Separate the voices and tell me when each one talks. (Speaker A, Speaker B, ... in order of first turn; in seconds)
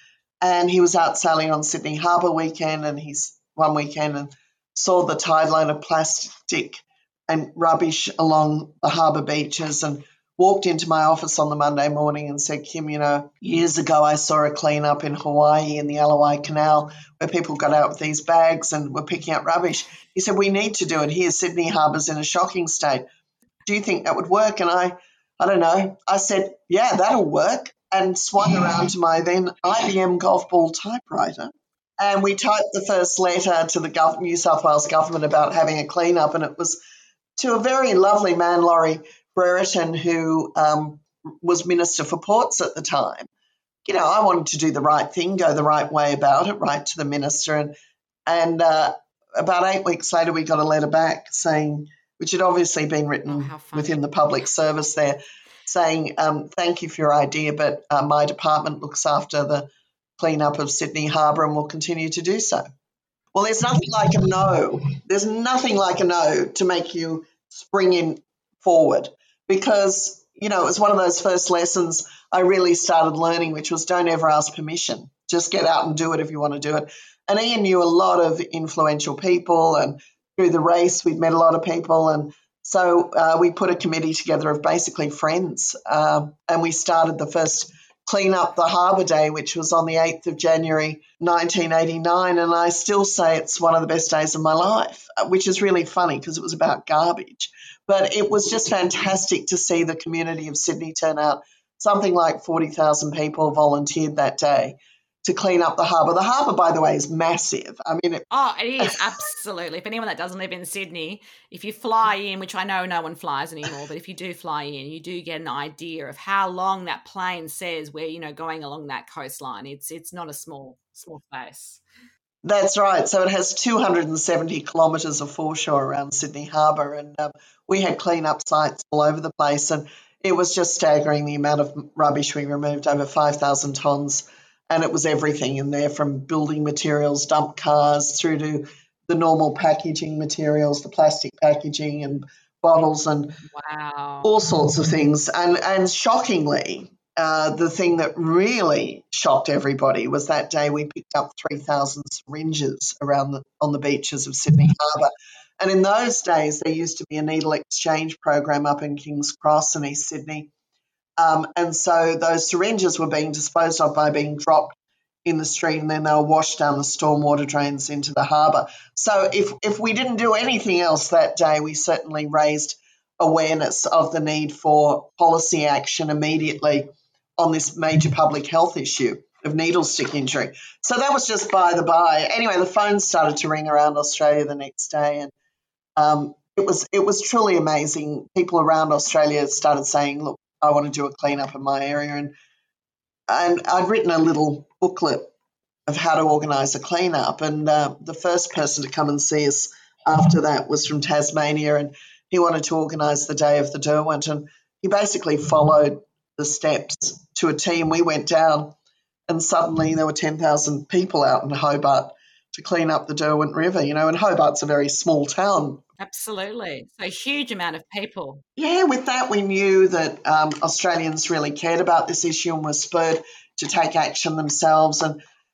Speaker A: 0.4-23.0, 23.6-36.8, 37.4-43.3, 43.8-47.7, 48.2-59.7, 60.2-62.6, 63.3-108.2, 122.4-143.4, 144.2-160.5, 161.2-176.8, 177.4-185.3, 185.9-192.3, 193.3-195.3, 195.9-208.7, 209.3-215.8, 218.6-225.2
Speaker B: 53.3-54.0, 108.3-121.8, 143.5-144.3, 216.0-218.4